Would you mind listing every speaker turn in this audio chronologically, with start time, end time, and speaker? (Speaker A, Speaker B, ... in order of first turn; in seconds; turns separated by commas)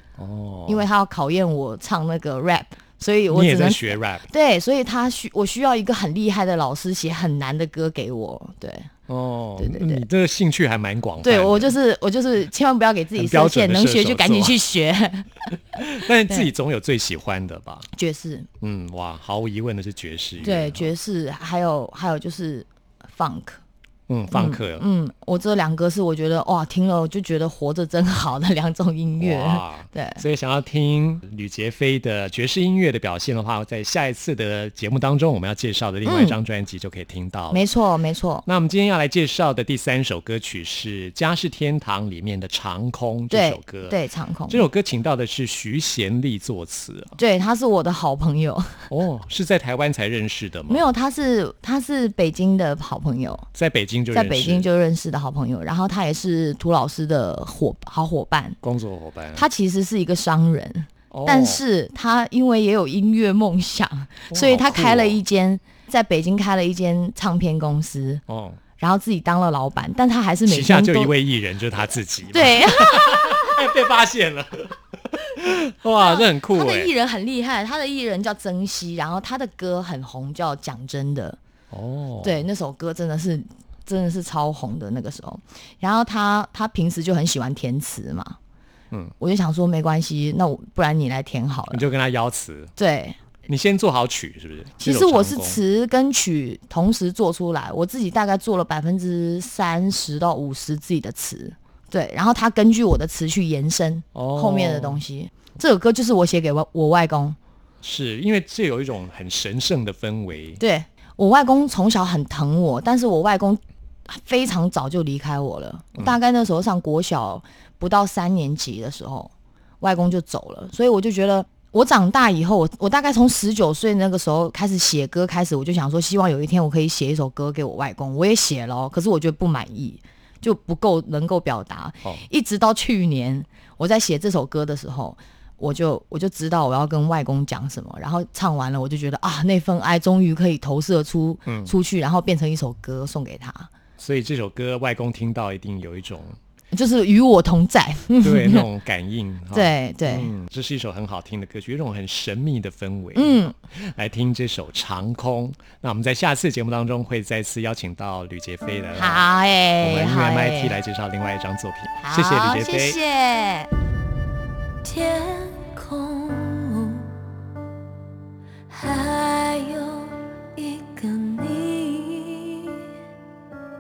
Speaker A: 0.2-0.8, Speaker B: 0.7-8.9, Speaker A: 3.3-4.3, Speaker A: 9.1-11.7, Speaker B: 9.6-10.0, Speaker B: 11.2-15.5, Speaker A: 13.1-14.6, Speaker A: 15.8-17.9, Speaker B: 17.9-18.5, Speaker A: 18.6-20.9, Speaker B: 20.4-23.6, Speaker A: 24.1-24.8, Speaker B: 24.3-30.2, Speaker A: 29.2-37.6, Speaker B: 36.0-36.4, Speaker B: 37.5-38.4, Speaker A: 38.4-44.0, Speaker B: 43.3-44.7, Speaker A: 44.5-47.1, Speaker B: 47.2-48.9, Speaker A: 48.9-50.8, Speaker B: 50.7-53.5, Speaker A: 53.5-54.7, Speaker B: 54.1-58.6, Speaker A: 58.6-59.5, Speaker B: 59.4-68.2, Speaker A: 61.1-61.6, Speaker A: 64.3-65.2, Speaker A: 68.3-68.6, Speaker B: 68.8-71.1, Speaker A: 70.5-76.9, Speaker B: 72.3-73.7, Speaker B: 76.0-81.4, Speaker A: 81.7-82.4, Speaker B: 82.2-88.4, Speaker B: 89.2-91.8, Speaker A: 91.7-92.7, Speaker B: 92.8-93.2, Speaker A: 93.5-95.6, Speaker B: 94.8-107.4, Speaker A: 104.1-105.0, Speaker A: 107.8-110.6, Speaker B: 110.6-143.7, Speaker A: 141.4-141.7, Speaker A: 144.0-146.4, Speaker B: 146.7-148.7, Speaker A: 148.2-159.2, Speaker B: 149.5-150.3, Speaker B: 153.1-153.5, Speaker B: 158.9-160.8, Speaker A: 159.8-163.0, Speaker B: 162.0-163.7, Speaker C: 164.8-167.1, Speaker C: 168.7-172.8